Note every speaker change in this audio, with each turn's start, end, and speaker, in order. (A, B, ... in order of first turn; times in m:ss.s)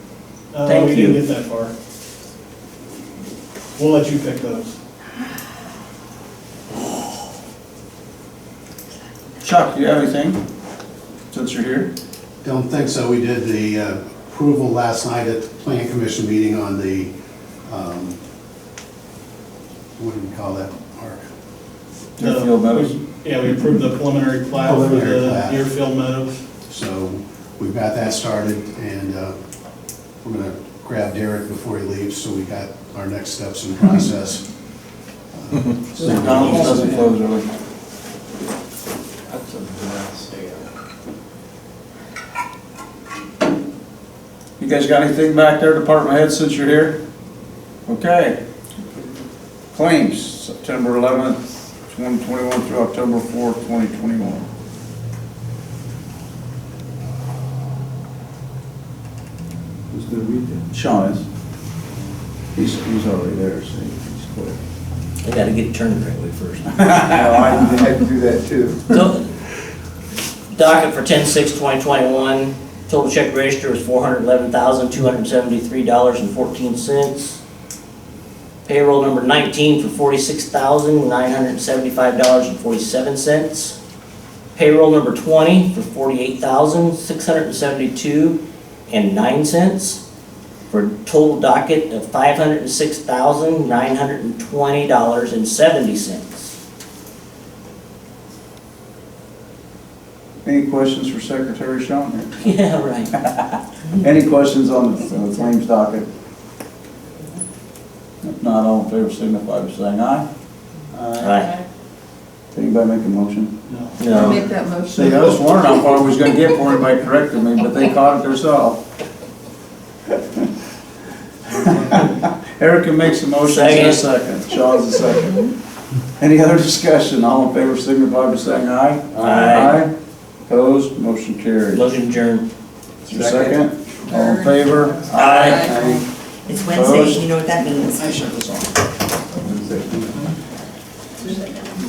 0:00.5-0:01.7 A
0:00.6-0:01.2 B
0:03.8-0:04.8 A
0:09.4-0:10.4 C
0:11.3-0:11.9 C
0:12.4-0:17.1 D
0:17.7-0:18.2 D
0:20.0-0:21.2 D
0:22.2-0:23.0 C
0:22.2-0:26.4 A
0:24.6-0:25.6 D
0:26.7-0:29.4 D
0:30.2-0:34.5 D
0:35.3-0:37.1 D
0:35.9-0:37.4 C
0:39.3-0:40.7 E
0:44.6-0:47.0 C
0:47.9-0:48.4 C
0:49.7-0:54.4 C
0:59.9-1:00.6 E
1:00.7-1:01.2 C
1:02.6-1:04.6 C
1:05.2-1:06.9 B
1:06.8-1:07.6 C
1:07.1-1:08.8 E
1:08.9-1:09.3 B
1:10.5-1:17.4 B
1:18.7-1:23.8 B
1:24.6-1:30.0 B
1:30.7-1:36.6 B
1:40.4-1:42.4 C
1:42.4-1:43.2 B
1:43.9-1:46.1 C
1:48.2-1:50.3 C
1:50.9-1:51.4 C
1:51.2-1:51.5 B
1:52.5-1:53.5 C
1:53.7-1:54.0 A
1:54.0-1:54.4 B
1:54.1-1:58.8 C
1:54.1-1:55.4 F
2:01.8-2:05.5 C
2:03.4-2:04.1 B
2:06.2-2:09.9 C
2:09.2-2:09.8 B
2:10.5-2:11.9 C
2:11.7-2:12.4 B
2:13.1-2:13.7 E
2:13.1-2:16.1 C
2:14.1-2:18.0 F
2:15.2-2:15.7 B
2:16.7-2:17.2 C
2:18.0-2:18.7 C
2:19.4-2:20.3 E
2:21.3-2:21.7 F